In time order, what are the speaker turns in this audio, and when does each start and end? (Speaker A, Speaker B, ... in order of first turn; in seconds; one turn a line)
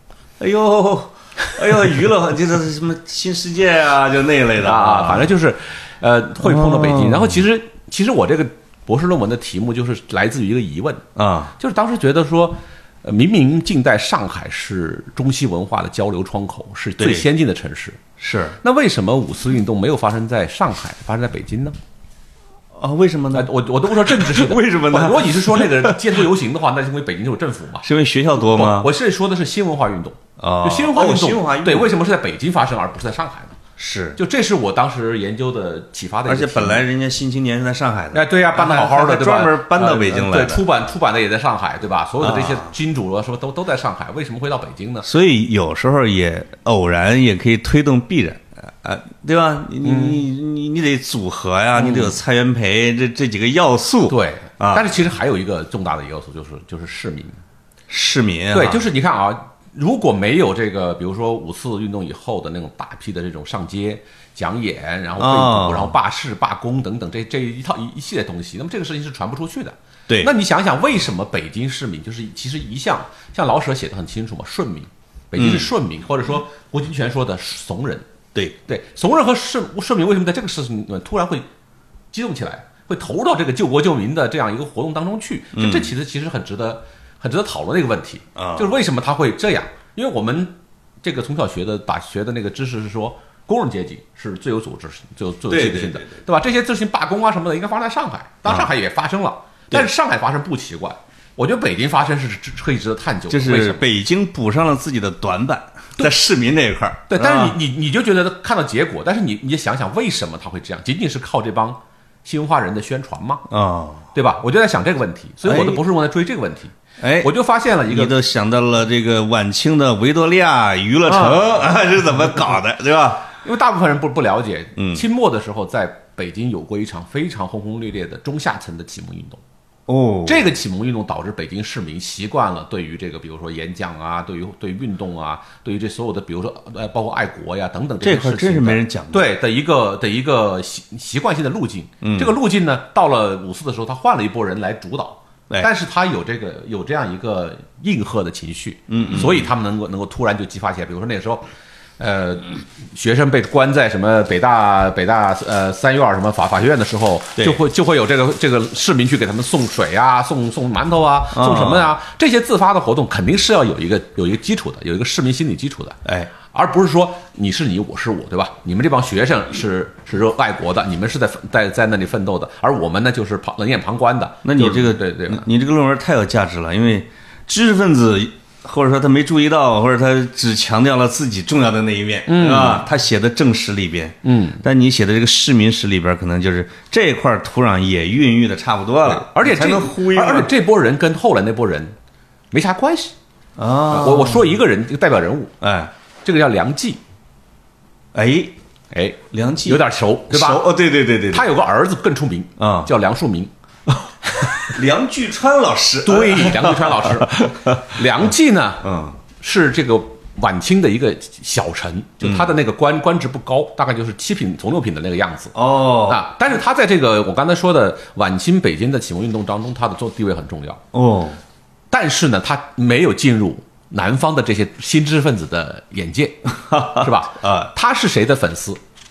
Speaker A: 0.4-5.3
Speaker B: 4.6-11.0
Speaker A: 6.4-7.4
Speaker A: 11.2-11.5
Speaker B: 11.6-18.0
Speaker A: 17.0-17.3
Speaker A: 18.2-18.6
Speaker B: 18.6-21.8
Speaker A: 22.7-26.1
Speaker B: 23.3-27.9
Speaker A: 27.8-28.9
Speaker B: 28.4-33.6
Speaker A: 30.4-31.9
Speaker A: 33.8-34.2
Speaker B: 34.2-36.9
Speaker A: 36.3-40.6
Speaker B: 38.1-45.1
Speaker A: 42.2-42.7
Speaker A: 45.0-54.9
Speaker B: 49.8-50.2
Speaker B: 51.8-52.2
Speaker B: 54.1-57.4
Speaker A: 57.9-58.8
Speaker B: 58.5-78.1
Speaker A: 65.2-65.9
Speaker A: 75.4-75.7
Speaker B: 78.7-81.5
Speaker B: 82.1-103.8
Speaker A: 85.6-85.9
Speaker A: 88.4-88.7
Speaker A: 95.5-96.2
Speaker A: 103.3-107.5
Speaker B: 107.1-113.5
Speaker A: 113.5-114.1
Speaker B: 114.1-118.1
Speaker A: 115.5-115.8
Speaker A: 117.0-117.3
Speaker A: 117.9-123.3
Speaker B: 121.1-121.7
Speaker B: 123.4-129.4
Speaker A: 124.8-125.0
Speaker A: 129.9-130.5
Speaker B: 130.2-151.4
Speaker A: 138.0-139.3
Speaker A: 142.0-142.3
Speaker A: 148.9-149.5
Speaker B: 152.0-166.0
Speaker A: 161.3-161.9
Speaker A: 166.1-166.3
Speaker B: 166.5-175.5
Speaker A: 174.4-190.5
Speaker B: 182.3-182.9
Speaker B: 184.2-184.6
Speaker B: 189.1-191.9
Speaker B: 192.5-193.1
Speaker A: 193.6-194.5
Speaker B: 193.9-195.5
Speaker A: 195.6-195.9
Speaker B: 196.2-197.0
Speaker A: 198.1-198.5
Speaker B: 198.9-200.7
Speaker A: 199.3-201.5
Speaker B: 201.3-203.5
Speaker A: 202.6-202.9
Speaker A: 204.6-207.9
Speaker B: 206.0-208.9
Speaker A: 208.8-209.2
Speaker B: 209.4-220.8
Speaker A: 212.2-212.5
Speaker A: 215.6-216.2
Speaker A: 220.9-221.4
Speaker B: 221.9-228.8
Speaker A: 226.6-227.7